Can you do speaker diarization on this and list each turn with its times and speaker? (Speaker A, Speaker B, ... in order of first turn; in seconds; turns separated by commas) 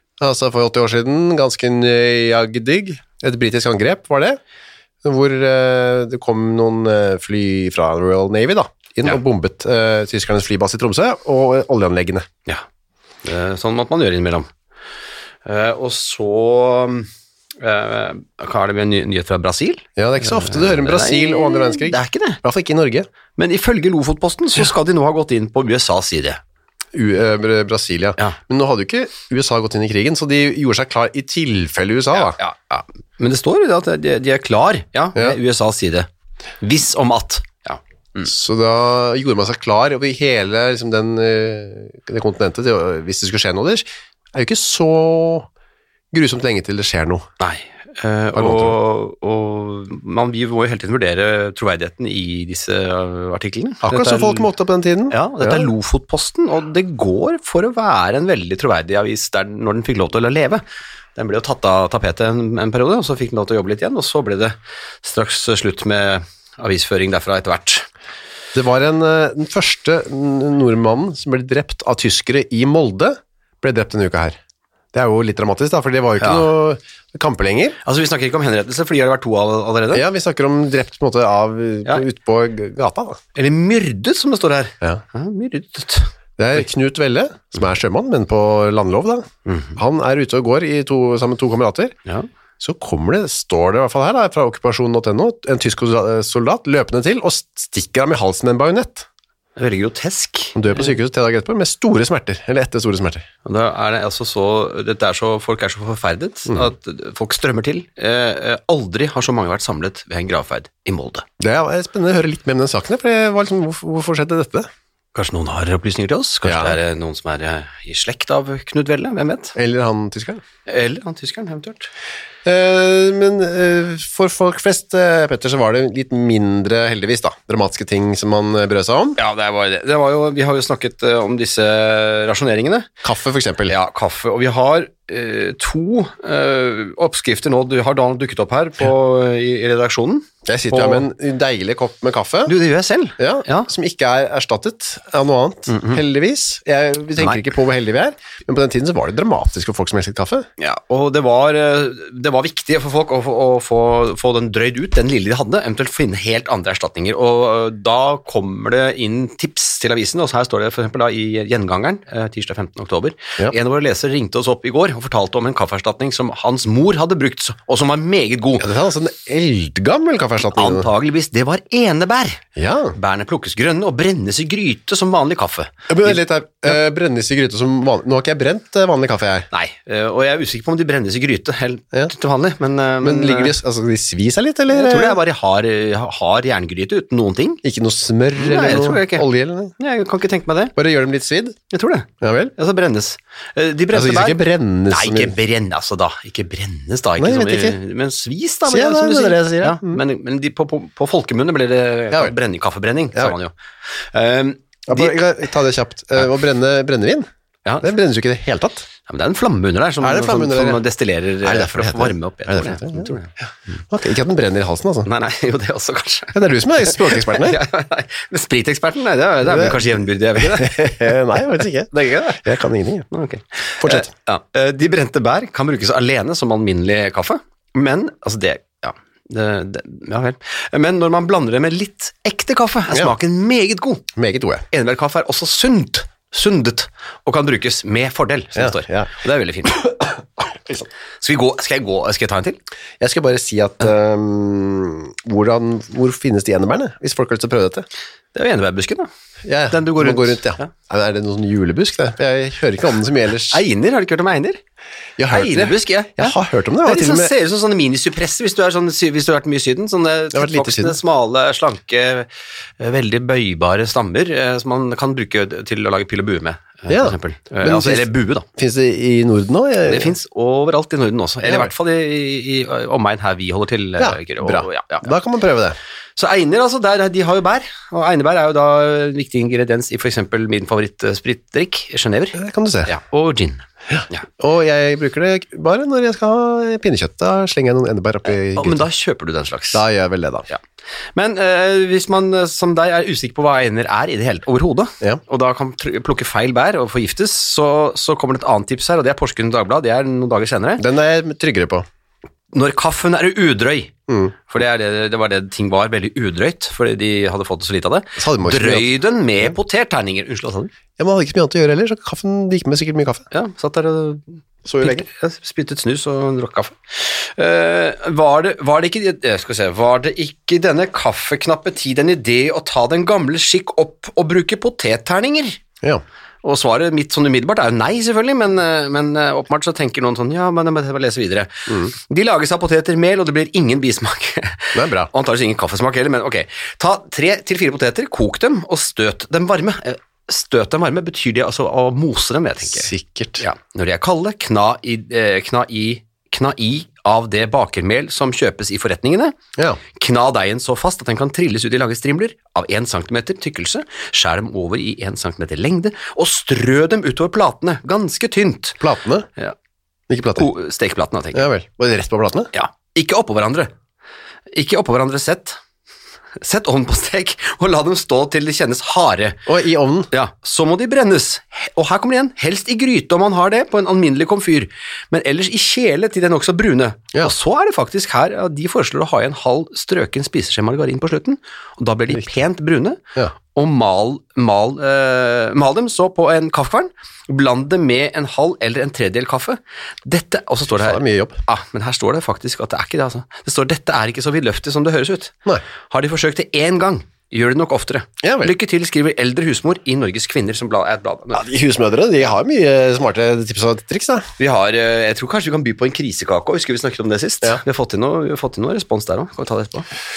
Speaker A: 0.2-4.4, Speaker A: 5.0-12.3, Speaker B: 13.2-14.5, Speaker B: 15.4-17.1, Speaker B: 17.6-22.4, Speaker A: 20.0-23.1, Speaker B: 23.4-26.4, Speaker A: 26.9-32.4, Speaker B: 32.1-36.1, Speaker B: 36.6-38.3, Speaker A: 38.2-45.5, Speaker A: 46.1-47.3, Speaker B: 47.4-54.5, Speaker A: 48.4-48.8, Speaker A: 53.9-55.7, Speaker B: 55.1-60.6, Speaker B: 61.2-67.9, Speaker A: 68.5-74.4, Speaker A: 74.9-77.8, Speaker B: 76.2-76.5, Speaker B: 77.8-80.0, Speaker A: 79.9-83.2, Speaker B: 83.3-86.1, Speaker A: 86.4-92.0, Speaker B: 89.5-89.8, Speaker A: 92.6-99.1, Speaker B: 99.6-100.9, Speaker A: 100.5-103.3, Speaker B: 103.5-111.2, Speaker A: 111.4-114.7, Speaker B: 115.2-119.5, Speaker A: 116.4-116.8, Speaker A: 119.5-120.4, Speaker B: 120.7-121.9, Speaker A: 122.5-129.2, Speaker B: 129.2-132.9, Speaker A: 133.0-133.7, Speaker B: 133.7-141.1, Speaker A: 140.5-142.6, Speaker B: 142.5-143.7, Speaker A: 143.2-150.5, Speaker B: 145.7-146.0, Speaker B: 150.6-168.7, Speaker A: 168.6-170.9, Speaker B: 170.5-172.4, Speaker A: 172.6-173.0, Speaker B: 172.9-176.8, Speaker A: 175.9-179.5, Speaker B: 179.5-183.6, Speaker A: 183.0-185.2, Speaker B: 184.7-187.6, Speaker A: 187.6-189.8, Speaker B: 188.4-189.2, Speaker B: 189.8-190.7, Speaker A: 190.8-191.6, Speaker B: 191.7-205.2, Speaker A: 192.2-192.5, Speaker A: 193.9-195.3, Speaker A: 197.2-197.8, Speaker A: 198.7-200.0, Speaker A: 204.9-207.3, Speaker A: 207.8-208.9, Speaker B: 209.1-213.8, Speaker A: 210.0-210.8, Speaker A: 211.4-213.2, Speaker A: 213.9-215.1, Speaker B: 215.1-222.4, Speaker A: 216.3-217.6, Speaker A: 219.4-223.1, Speaker B: 223.1-234.1, Speaker A: 223.8-224.1, Speaker A: 234.2-234.6, Speaker B: 234.7-239.8, Speaker A: 238.6-240.9, Speaker B: 241.2-242.6, Speaker A: 243.0-247.9, Speaker B: 248.3-249.1, Speaker A: 249.4-253.6, Speaker B: 249.7-250.7, Speaker B: 253.5-254.6, Speaker A: 255.2-257.3, Speaker B: 255.3-262.3, Speaker A: 260.3-261.0, Speaker B: 262.8-268.4, Speaker A: 266.9-270.1, Speaker B: 269.9-275.1, Speaker A: 271.4-271.7, Speaker A: 274.0-275.8, Speaker B: 276.2-284.3, Speaker A: 282.4-282.9, Speaker A: 283.9-288.9, Speaker B: 288.3-289.8, Speaker A: 289.7-290.5, Speaker B: 291.1-300.9, Speaker A: 300.8-301.9, Speaker B: 302.5-303.9, Speaker A: 304.1-304.3, Speaker B: 304.5-310.7, Speaker A: 308.2-308.9, Speaker A: 311.0-313.2, Speaker B: 313.3-325.6, Speaker A: 314.6-315.1, Speaker B: 326.4-349.4, Speaker A: 331.7-331.9, Speaker A: 334.7-335.1, Speaker A: 342.7-343.4, Speaker B: 350.0-358.8, Speaker A: 358.8-359.3, Speaker A: 360.1-360.5, Speaker B: 360.4-361.5, Speaker A: 361.3-362.5, Speaker B: 362.5-363.7, Speaker B: 364.5-365.6, Speaker B: 366.4-369.4, Speaker A: 369.5-370.1, Speaker B: 370.1-395.4, Speaker A: 390.7-391.4, Speaker B: 395.9-401.5, Speaker A: 398.2-398.5, Speaker A: 401.3-404.3, Speaker B: 404.4-409.9